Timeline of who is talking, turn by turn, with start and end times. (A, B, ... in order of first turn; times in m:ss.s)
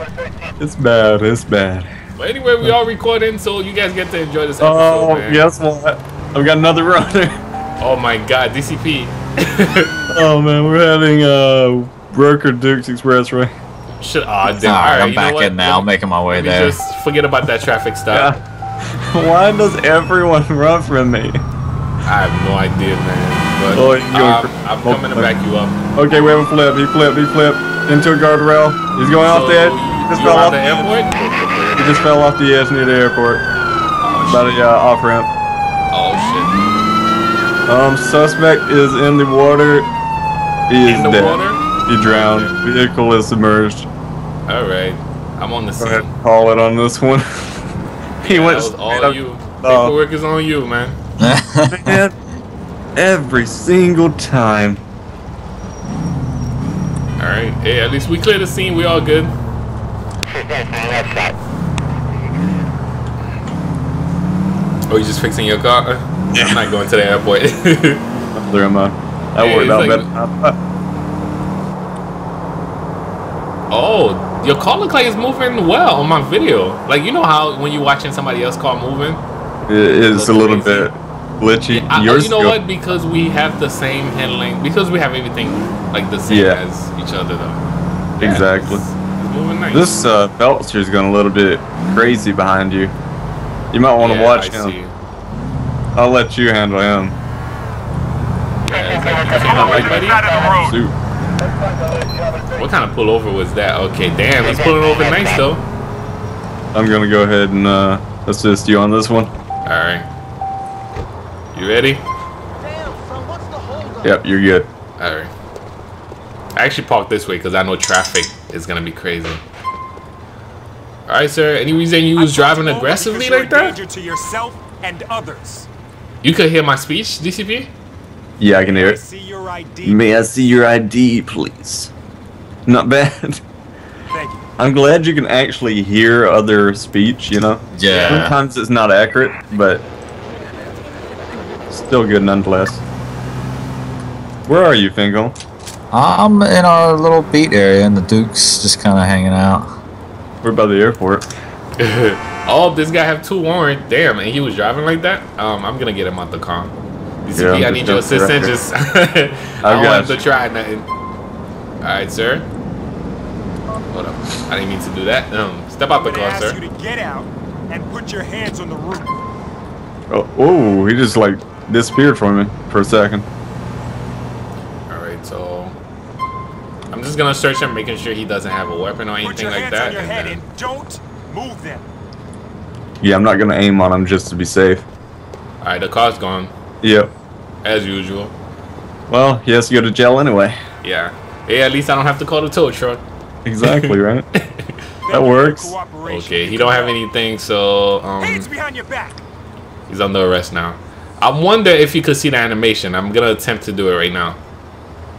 0:00.6-0:01.9 A
0:02.2-0:05.5 B
0:04.6-0:07.4 A
0:07.8-0:10.0 B
0:10.1-0:13.5 A
0:14.0-0:18.3 B
0:14.6-0:16.8 C
0:18.1-0:21.4 A
0:22.0-0:25.8 B
0:23.7-0:25.3 A
0:26.0-0:30.9 A
0:29.2-0:31.1 B
0:31.7-0:33.4 A
0:34.0-0:34.6 B
0:34.3-0:35.3 A
0:35.9-0:36.6 B
0:37.7-0:39.9 A
0:40.7-0:43.9 A
0:40.8-0:42.5 B
0:44.5-0:46.1 B
0:45.8-0:50.0 A
0:48.2-0:51.0 B
0:51.2-0:52.0 C
0:51.7-0:52.1 A
0:53.0-0:54.8 A
0:57.2-0:59.4 B
1:04.9-1:08.1 B
1:06.3-1:06.6 A
1:08.4-1:10.6 A
1:09.4-1:10.1 B
1:13.7-1:19.2 B
1:19.7-1:22.6 A
1:20.1-1:20.9 B
1:21.7-1:27.6 B
1:26.3-1:26.6 A
1:28.2-1:30.0 B
1:28.2-1:28.8 A
1:29.7-1:32.9 A
1:33.7-1:34.8 A
1:34.0-1:35.0 B
1:36.0-1:37.2 A
1:38.6-1:40.2 B
1:39.4-1:40.9 A
1:42.6-1:45.6 B
1:46.7-1:49.3 A
1:49.6-1:50.1 B
1:51.5-1:52.0 B
1:52.6-1:54.2 D
1:54.0-1:54.7 A
1:55.0-1:55.3 B
1:56.6-1:59.4 B
2:01.1-2:03.8 B
2:02.2-2:05.7 D
2:06.2-2:07.7 B
2:08.4-2:09.0 A
2:08.6-2:10.0 D
2:09.8-2:11.9 A
2:12.6-2:13.4 A
2:14.1-2:14.5 D
2:14.6-2:19.8 A
2:17.7-2:18.4 C
2:17.9-2:18.3 B
2:21.7-2:22.8 A
2:24.5-2:25.4 A
2:25.9-2:29.7 C
2:30.4-2:31.3 A
2:31.8-2:36.7 B
2:37.2-2:40.9 B
2:37.4-2:38.5 A
2:39.6-2:40.2 A
2:41.8-2:42.5 B
2:43.9-2:46.6 B
2:46.0-2:49.2 D
2:50.1-2:53.3 A
2:54.9-2:55.8 B
2:56.9-3:00.4 B
2:59.2-3:01.9 D
3:03.0-3:04.9 A
3:05.6-3:06.5 B
3:06.8-3:07.1 A
3:07.6-3:08.3 B
3:09.1-3:10.6 A
3:10.8-3:13.0 B
3:13.4-3:14.3 A
3:13.6-3:14.8 B
3:15.0-3:17.0 D
3:15.1-3:15.7 A
3:16.0-3:18.5 B
3:18.2-3:19.2 D
3:19.9-3:24.4 B